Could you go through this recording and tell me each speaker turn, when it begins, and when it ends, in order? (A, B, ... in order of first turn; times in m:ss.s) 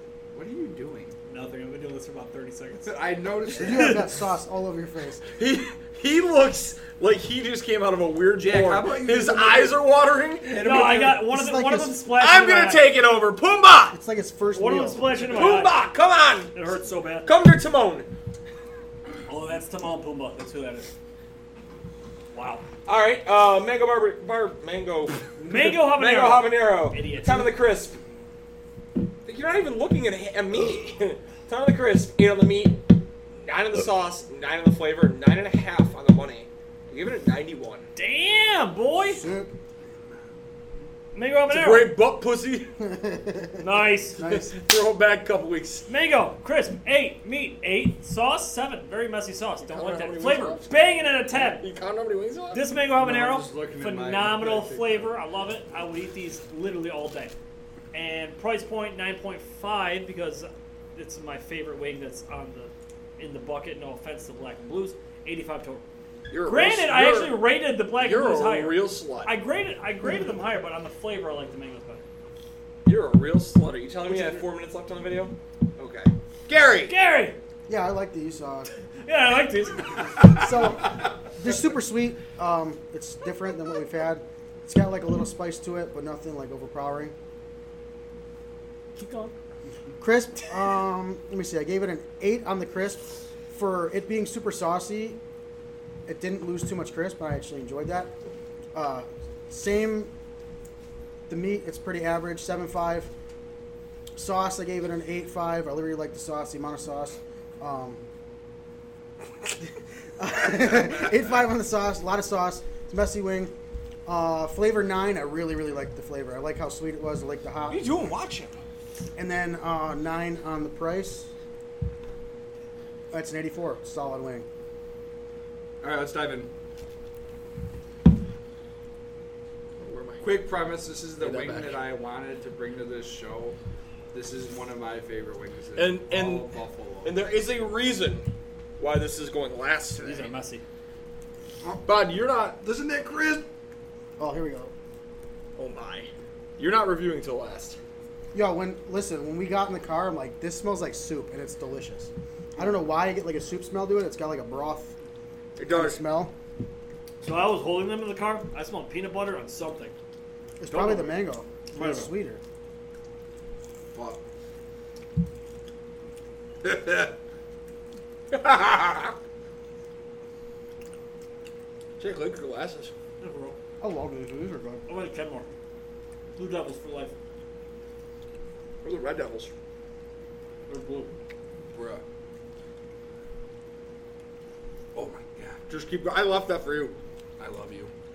0:00.3-0:01.2 A
0:01.3-0:04.0 B
0:02.8-0:04.0 A
0:03.5-0:05.2 C
0:05.4-0:10.8 D
0:08.4-0:09.8 A
0:10.4-0:11.2 A
0:10.6-0:12.8 B
0:11.1-0:12.0 C
0:12.2-0:14.0 D
0:13.9-0:15.2 C
0:14.5-0:15.7 B
0:15.3-0:16.5 D
0:16.5-0:17.3 B
0:17.2-0:18.1 D
0:19.3-0:20.9 B
0:22.3-0:22.6 B
0:22.8-0:28.0 D
0:25.4-0:27.5 B
0:29.2-0:32.8 D
0:33.4-0:37.8 D
0:38.0-0:39.2 B
0:39.1-0:39.5 C
0:41.1-0:41.9 B
0:41.5-0:42.7 D
0:42.8-0:43.6 C
0:43.6-0:44.4 B
0:44.2-0:44.5 C
0:44.2-0:45.8 D
0:45.9-0:51.6 B
0:49.6-0:50.7 D
0:51.3-0:52.6 D
0:52.5-0:57.3 B
0:52.9-0:55.1 A
0:57.9-1:05.8 B
1:06.3-1:09.3 D
1:06.4-1:12.0 B
1:12.8-1:16.9 D
1:14.1-1:14.4 B
1:16.9-1:17.4 B
1:17.7-1:18.7 C
1:19.0-1:20.2 B
1:20.2-1:27.1 C
1:29.0-1:29.3 B
1:30.0-1:35.2 C
1:36.0-1:38.1 C
1:38.7-1:40.1 C
1:41.3-1:43.1 C
1:44.1-1:48.0 C
1:50.2-1:53.5 C
1:54.0-1:57.9 C
1:57.7-1:58.5 D
1:59.2-2:01.3 C
2:03.1-2:04.4 C
2:05.8-2:06.5 A
2:09.8-2:10.3 D
2:10.2-2:13.6 A
2:11.2-2:11.8 D
2:14.1-2:17.2 A
2:15.8-2:16.5 D
2:17.0-2:18.2 D
2:18.8-2:20.3 D
2:20.0-2:20.6 B
2:21.8-2:22.8 D
2:22.6-2:23.4 A
2:24.2-2:24.7 C
2:25.6-2:27.8 D
2:28.3-2:34.9 C
2:35.6-2:36.0 D
2:35.7-2:36.3 C
2:37.2-2:39.9 B
2:40.6-2:42.4 C
2:40.7-2:41.2 B
2:41.7-2:42.1 B
2:43.9-2:44.2 A
2:46.6-2:47.1 A
2:48.3-2:49.1 D
2:52.0-2:52.9 D
2:53.2-2:53.6 B
2:53.8-2:54.8 C
2:54.9-2:55.5 B
2:56.4-2:57.1 B
2:58.8-2:59.5 D
3:00.7-3:01.1 B
3:01.7-3:02.0 A
3:04.9-3:05.6 A
3:05.7-3:07.0 D
3:07.4-3:07.9 A